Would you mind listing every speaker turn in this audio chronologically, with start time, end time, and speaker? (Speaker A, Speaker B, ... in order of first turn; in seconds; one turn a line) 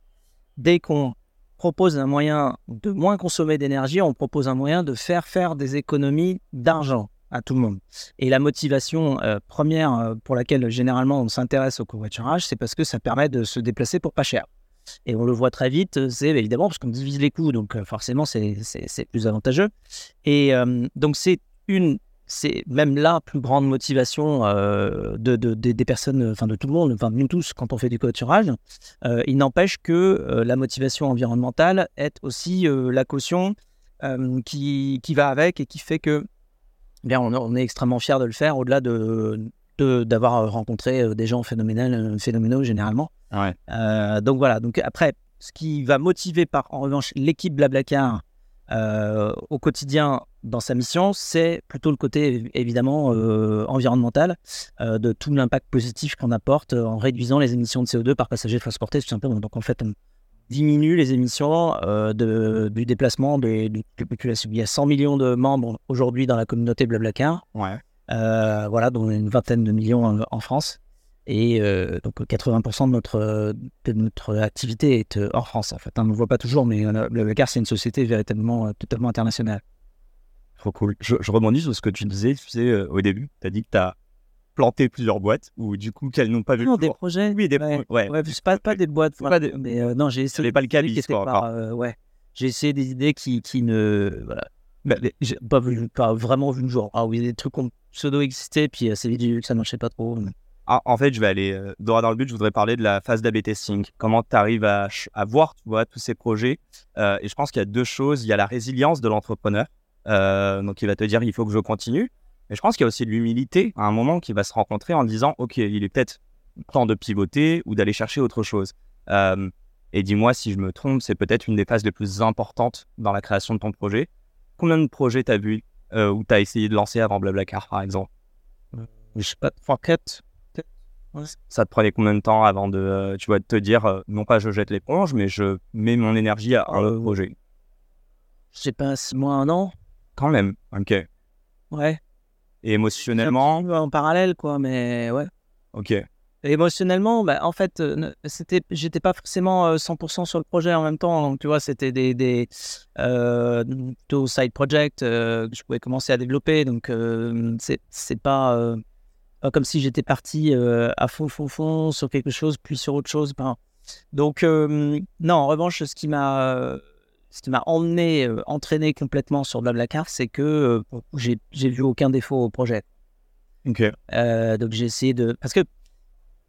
Speaker A: 0.6-14.5
Speaker A: 15.1-19.7
Speaker A: 20.2-36.2
Speaker A: 37.0-43.1
Speaker A: 43.7-59.9
Speaker A: 60.5-67.4
Speaker B: 67.5-67.8
Speaker A: 68.1-79.6
Speaker B: 80.6-83.9
Speaker B: 84.5-89.7
Speaker A: 86.6-100.3
Speaker B: 90.3-91.4
Speaker B: 100.7-128.1
Speaker A: 128.7-131.3
Speaker B: 131.5-137.3
Speaker A: 136.7-137.1
Speaker A: 138.5-139.7
Speaker B: 140.2-141.0
Speaker A: 141.7-142.0
Speaker B: 142.6-143.7
Speaker A: 143.2-145.3
Speaker B: 145.7-146.0
Speaker A: 146.4-158.8
Speaker A: 159.4-163.6
Speaker A: 164.1-172.8
Speaker B: 173.6-173.9
Speaker A: 174.1-175.7